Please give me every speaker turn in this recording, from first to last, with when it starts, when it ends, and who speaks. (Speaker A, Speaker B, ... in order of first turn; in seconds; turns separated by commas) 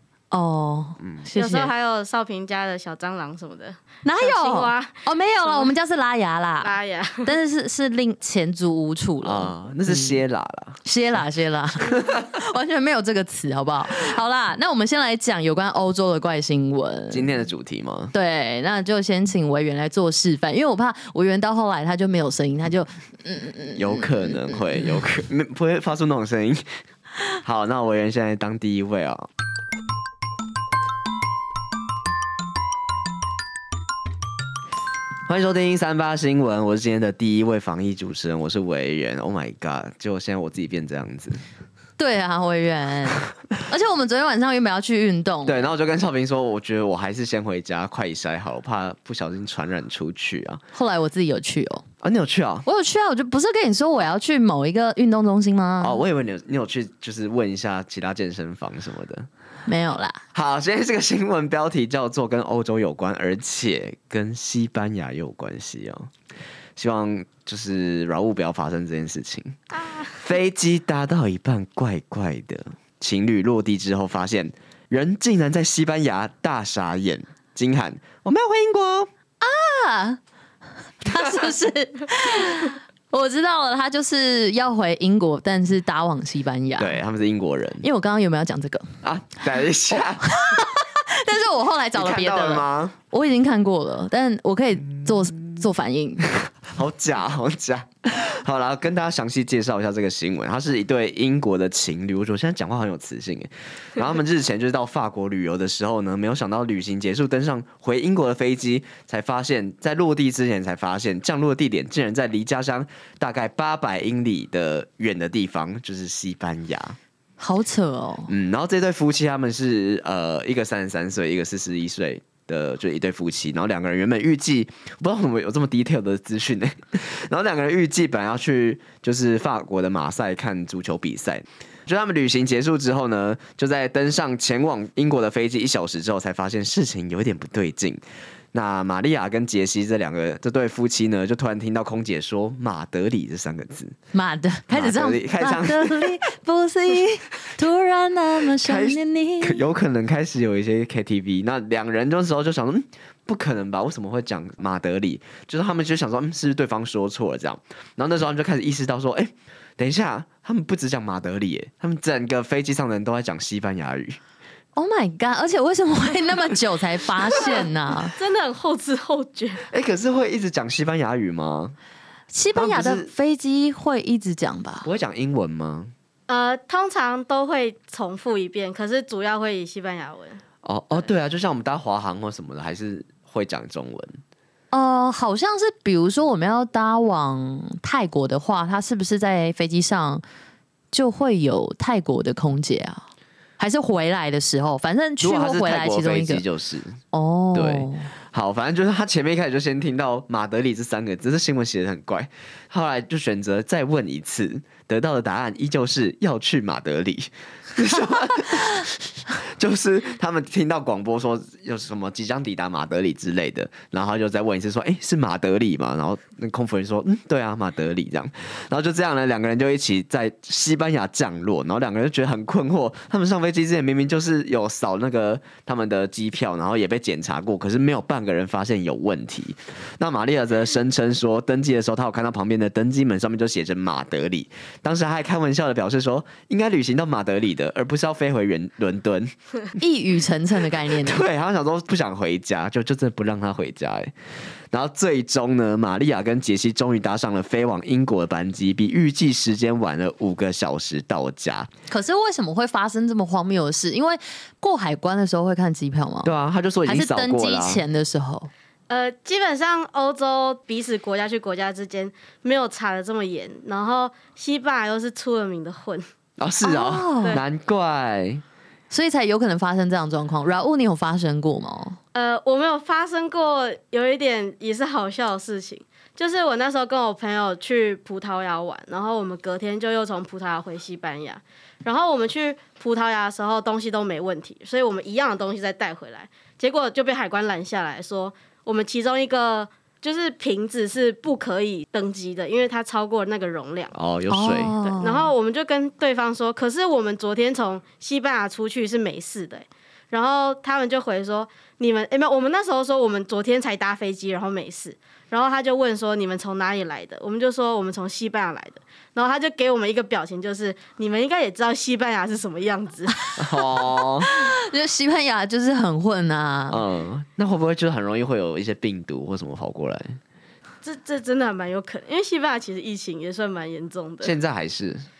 Speaker A: 0.3-1.7, Speaker B: 1.0-1.2, Speaker C: 1.4-5.7, Speaker A: 4.0-6.7, Speaker C: 6.6-7.3, Speaker A: 7.2-10.2, Speaker B: 9.2-10.8, Speaker A: 10.8-17.3, Speaker B: 17.1-18.1, Speaker A: 18.1-25.0, Speaker B: 23.8-26.7, Speaker B: 27.4-29.3, Speaker B: 35.3-41.4, Speaker A: 42.0-45.7, Speaker B: 45.5-50.6, Speaker A: 50.7-51.8, Speaker B: 52.0-52.6, Speaker A: 52.6-56.0, Speaker B: 55.8-59.3, Speaker A: 59.7-60.2, Speaker B: 60.3-66.1, Speaker B: 66.8-69.6, Speaker C: 69.7-70.2, Speaker B: 70.2-79.1, Speaker A: 79.4-80.2, Speaker A: 81.0-87.0, Speaker B: 86.8-87.8, Speaker A: 87.8-88.9, Speaker B: 89.0-90.6, Speaker A: 89.9-96.3, Speaker B: 91.9-93.0, Speaker B: 96.6-117.0, Speaker A: 117.4-118.3, Speaker B: 118.3-138.0, Speaker B: 138.5-143.9, Speaker A: 144.1-149.6, Speaker B: 144.7-146.2, Speaker B: 148.6-164.2, Speaker A: 164.8-168.1, Speaker C: 168.1-169.7, Speaker B: 169.7-171.7, Speaker A: 172.3-174.9, Speaker B: 172.5-173.1, Speaker B: 174.8-175.9, Speaker C: 176.3-180.4, Speaker B: 180.6-184.2, Speaker A: 184.7-190.2, Speaker A: 190.9-193.0, Speaker A: 193.6-196.4, Speaker B: 195.2-197.0, Speaker A: 197.1-198.1, Speaker B: 197.5-239.3, Speaker A: 239.8-241.2, Speaker B: 240.9-244.1, Speaker B: 244.7-251.7, Speaker A: 251.9-256.3, Speaker B: 256.2-257.8, Speaker A: 256.9-258.5, Speaker C: 258.9-266.1, Speaker B: 266.4-268.4, Speaker A: 266.6-267.4, Speaker A: 268.9-272.0, Speaker C: 272.1-293.9, Speaker B: 293.9-294.7, Speaker A: 294.3-295.3, Speaker C: 294.8-313.2, Speaker A: 313.2-316.8, Speaker B: 313.4-314.3, Speaker B: 316.7-320.2, Speaker C: 320.8-324.3, Speaker B: 324.2-325.1